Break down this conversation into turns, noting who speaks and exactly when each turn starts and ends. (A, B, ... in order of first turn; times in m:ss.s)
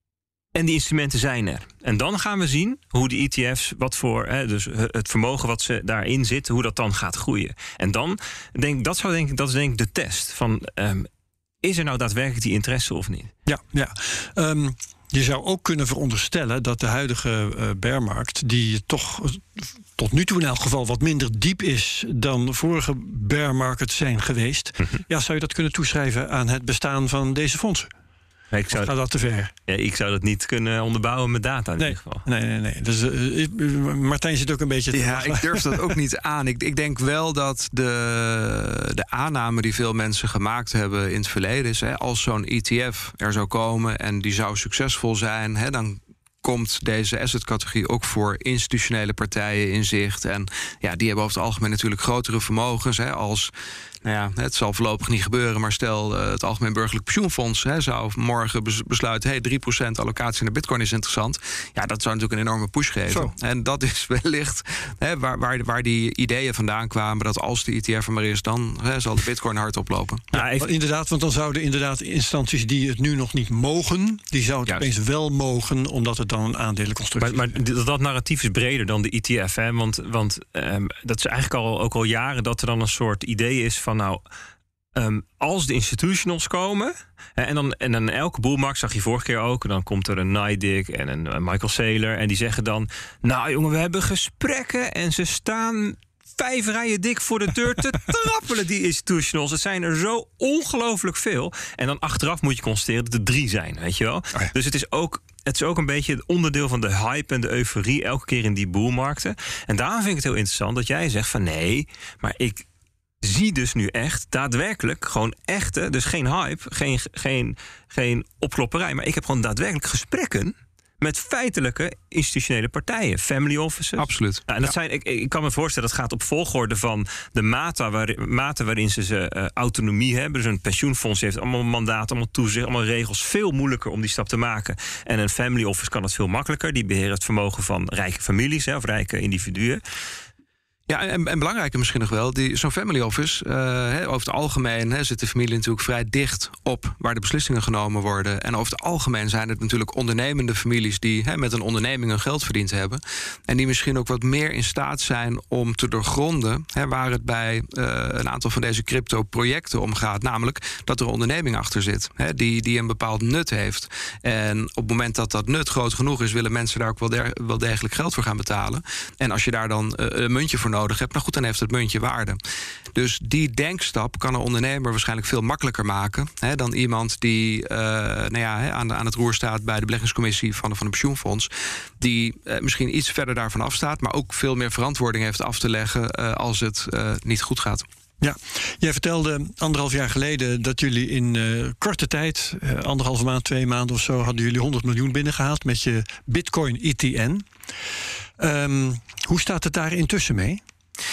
0:00.5-0:11.1 A
0:11.6-0:13.3 A
0:13.4-0:27.9 B
0:28.5-0:29.0 A
0:28.7-0:29.5 B
0:29.7-0:32.2 A
0:31.8-0:35.9 B
0:34.9-0:53.5 C
0:54.0-1:10.2 C
1:10.3-1:10.7 A
1:10.3-1:17.5 B
1:17.2-1:24.2 A
1:24.9-1:52.6 A
1:53.2-2:19.8 A
2:04.0-2:04.4 C
2:20.9-2:52.4 C
2:52.9-3:07.8 C
3:08.2-3:17.5 B
3:18.4-3:20.6 B